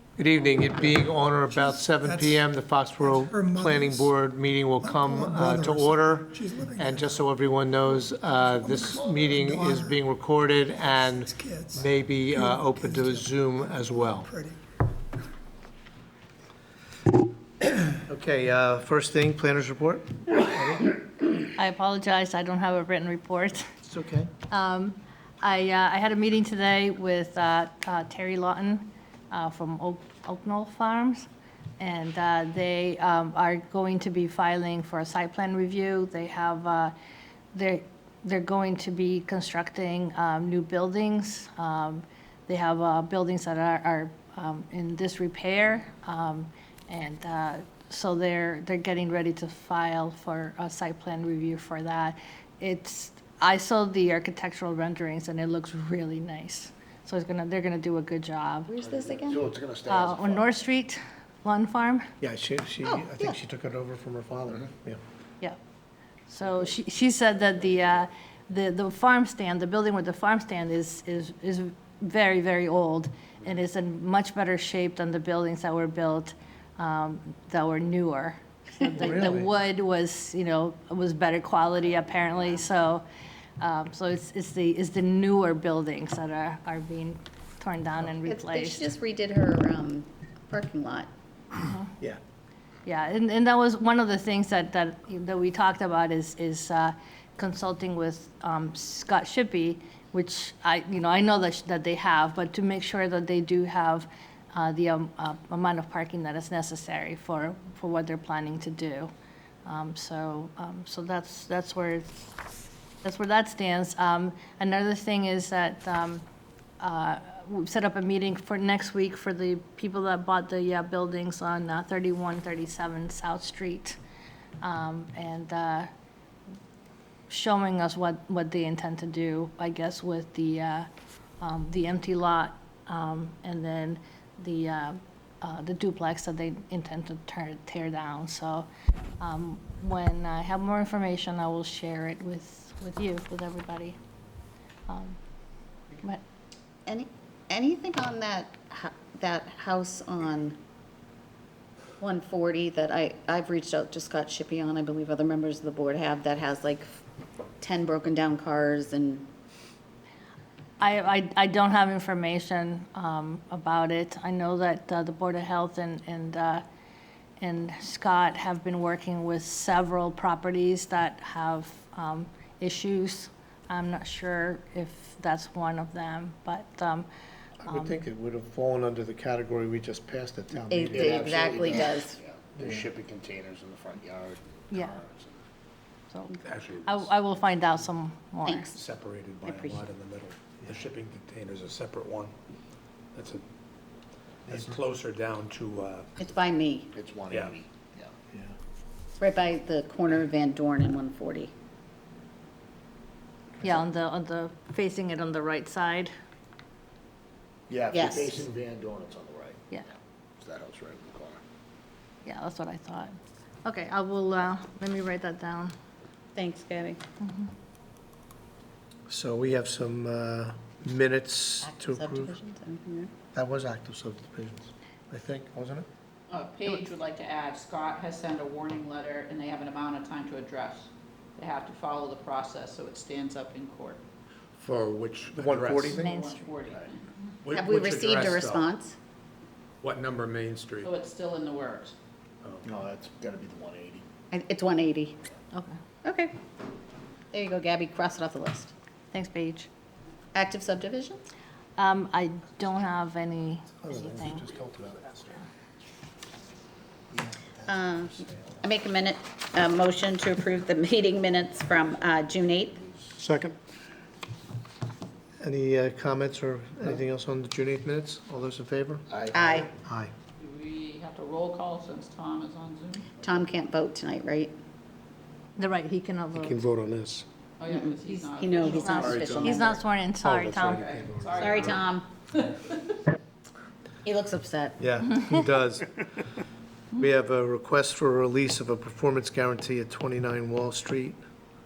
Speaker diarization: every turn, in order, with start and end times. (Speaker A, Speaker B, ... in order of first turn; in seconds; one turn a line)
Speaker A: 0.2-14.3
Speaker B: 0.4-4.2
Speaker B: 4.7-7.3
Speaker B: 7.8-14.6
Speaker A: 18.0-20.9
Speaker C: 21.6-23.7
Speaker A: 23.9-24.3
Speaker C: 24.5-31.3
Speaker C: 31.8-36.9
Speaker C: 37.5-58.7
Speaker D: 58.7-59.4
Speaker E: 58.9-60.6
Speaker C: 59.9-62.1
Speaker A: 62.2-65.0
Speaker D: 62.8-63.4
Speaker C: 66.3-83.0
Speaker E: 67.8-68.0
Speaker A: 78.9-79.5
Speaker C: 83.6-88.9
Speaker D: 88.3-91.1
Speaker C: 91.6-91.9
Speaker C: 92.9-109.1
Speaker C: 109.7-112.3
Speaker C: 113.0-116.2
Speaker C: 116.8-124.0
Speaker C: 124.6-125.9
Speaker C: 127.3-130.9
Speaker C: 131.4-138.7
Speaker C: 139.2-144.0
Speaker C: 144.9-145.2
Speaker D: 146.9-150.6
Speaker D: 152.0-157.0
Speaker D: 157.6-159.3
Speaker C: 160.8-166.6
Speaker C: 167.4-177.1
Speaker A: 177.6-181.9
Speaker C: 177.7-178.0
Speaker D: 180.7-182.2
Speaker E: 180.9-185.4
Speaker C: 184.7-185.0
Speaker C: 186.1-188.7
Speaker F: 186.4-187.1
Speaker D: 188.4-188.8
Speaker F: 188.7-192.3
Speaker D: 189.4-189.8
Speaker F: 193.2-193.4
Speaker F: 194.5-196.1
Speaker D: 196.2-196.9
Speaker E: 196.9-198.1
Speaker F: 197.3-197.6
Speaker D: 199.2-201.5
Speaker C: 203.6-206.1
Speaker E: 207.7-209.7
Speaker D: 207.9-208.5
Speaker E: 210.4-211.4
Speaker C: 212.2-215.7
Speaker D: 216.3-217.0
Speaker C: 217.2-217.5
Speaker A: 219.1-222.3
Speaker D: 221.6-223.1
Speaker A: 223.3-225.9
Speaker G: 226.3-234.0
Speaker F: 234.6-236.1
Speaker A: 235.3-236.1
Speaker G: 235.9-237.1
Speaker C: 235.9-236.4
Speaker F: 237.4-238.7
Speaker D: 237.5-238.9
Speaker F: 239.8-240.9
Speaker G: 240.8-241.9
Speaker F: 242.4-242.8
Speaker E: 242.6-244.0
Speaker D: 244.3-245.2
Speaker C: 245.5-245.8
Speaker D: 246.0-246.3
Speaker D: 247.3-248.7
Speaker C: 249.1-249.7
Speaker D: 250.3-251.2
Speaker C: 251.8-254.5
Speaker A: 253.8-255.4
Speaker A: 257.1-258.4
Speaker D: 257.6-262.8
Speaker E: 262.7-263.2
Speaker A: 263.2-263.6
Speaker A: 265.4-269.1
Speaker E: 269.1-269.7
Speaker D: 269.3-269.7
Speaker A: 269.8-270.1
Speaker G: 270.4-273.1
Speaker D: 273.2-274.5
Speaker C: 275.6-276.6
Speaker A: 276.3-277.3
Speaker G: 277.6-279.5
Speaker D: 277.7-279.8
Speaker C: 278.6-280.9
Speaker A: 279.0-279.6
Speaker E: 279.1-279.5
Speaker A: 280.2-281.8
Speaker G: 280.6-282.9
Speaker D: 281.4-282.1
Speaker D: 284.0-284.8
Speaker A: 284.8-286.0
Speaker A: 286.9-291.2